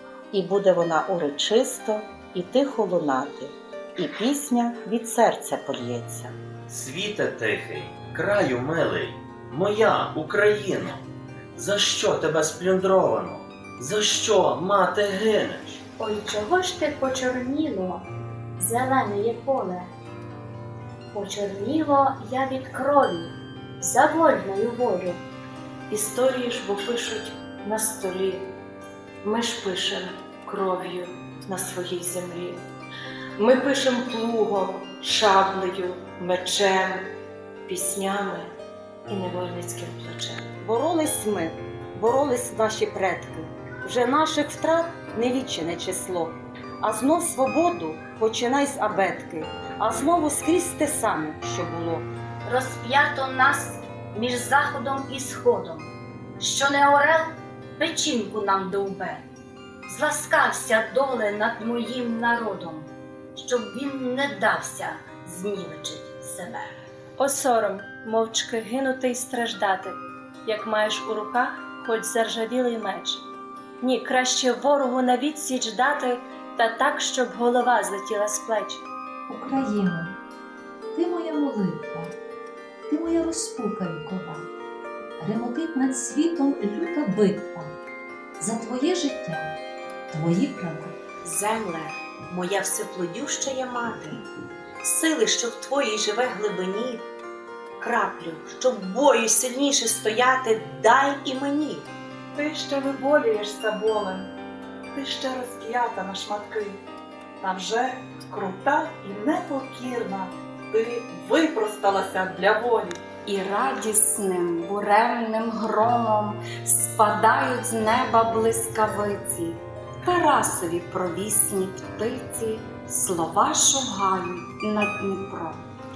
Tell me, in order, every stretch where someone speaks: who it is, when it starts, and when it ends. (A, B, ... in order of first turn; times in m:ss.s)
0:00.3-0:06.3 A
0:06.7-0:11.0 B
0:11.6-0:15.8 B
0:16.0-0:18.0 C
0:18.6-0:19.9 C
0:21.1-0:25.2 C
0:25.9-0:28.5 D
0:29.2-0:32.7 D
0:33.4-0:37.1 D
0:37.6-0:38.5 D
0:39.1-0:40.5 D
0:40.6-0:52.1 E
0:52.4-0:59.2 C
0:59.9-1:06.8 C
1:07.2-1:13.2 F
1:13.8-1:18.8 F
1:19.3-1:20.1 G
1:20.9-1:22.2 G
1:22.9-1:24.5 G
1:25.2-1:27.7 G
1:28.4-1:29.5 G
1:30.1-1:31.0 G
1:31.2-1:34.2 H
1:34.8-1:37.0 H
1:37.8-1:41.9 H
1:42.4-1:44.3 I
1:44.9-1:46.8 I
1:47.4-1:53.0 I
1:53.2-2:05.6 J